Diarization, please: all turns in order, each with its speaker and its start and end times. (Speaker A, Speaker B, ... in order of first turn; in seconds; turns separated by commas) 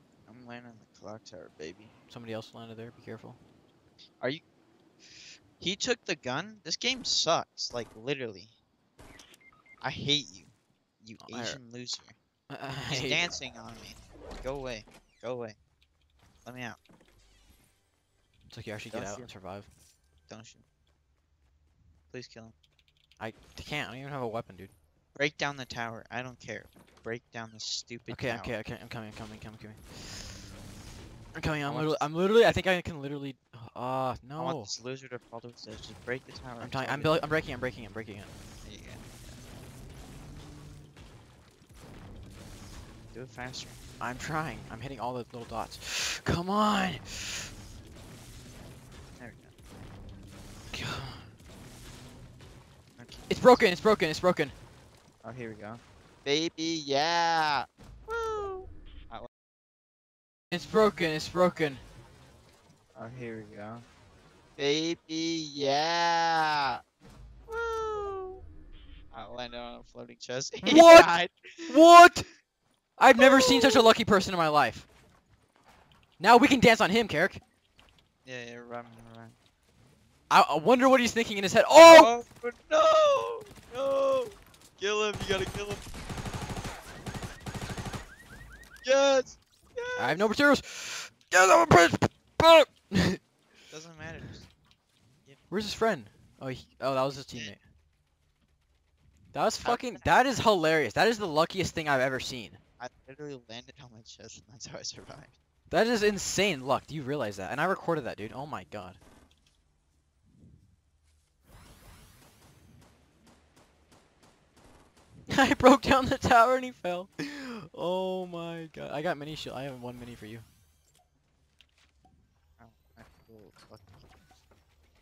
Speaker A: 0.3-1.9, Speaker B: 2.1-3.4, Speaker A: 5.6-8.5, Speaker A: 9.8-12.2, Speaker B: 11.2-11.6, Speaker B: 12.5-13.3, Speaker A: 12.9-15.6, Speaker A: 16.4-16.8, Speaker B: 18.5-19.7, Speaker A: 18.9-19.3, Speaker A: 20.3-20.6, Speaker A: 22.1-22.5, Speaker B: 23.2-24.7, Speaker A: 25.2-28.6, Speaker B: 28.1-30.4, Speaker B: 31.3-34.7, Speaker A: 31.6-32.6, Speaker A: 34.4-37.2, Speaker B: 36.6-38.3, Speaker A: 38.6-39.4, Speaker A: 43.1-43.8, Speaker B: 44.0-47.5, Speaker A: 49.2-49.5, Speaker B: 50.7-51.3, Speaker A: 53.0-53.6, Speaker B: 53.3-54.5, Speaker A: 55.2-59.3, Speaker B: 60.5-61.8, Speaker A: 63.0-63.9, Speaker A: 64.6-66.8, Speaker A: 67.5-68.4, Speaker A: 69.1-71.8, Speaker B: 70.6-71.1, Speaker B: 71.7-72.3, Speaker B: 73.0-74.9, Speaker A: 73.2-73.9, Speaker B: 76.2-77.4, Speaker A: 78.2-79.4, Speaker B: 80.3-82.1, Speaker A: 81.8-85.8, Speaker A: 88.8-90.3, Speaker B: 90.0-93.2, Speaker A: 93.7-94.5, Speaker B: 95.5-97.6, Speaker B: 99.3-102.6, Speaker A: 99.6-100.2, Speaker A: 102.8-105.4, Speaker B: 105.7-109.0, Speaker B: 115.3-120.5, Speaker A: 122.6-124.2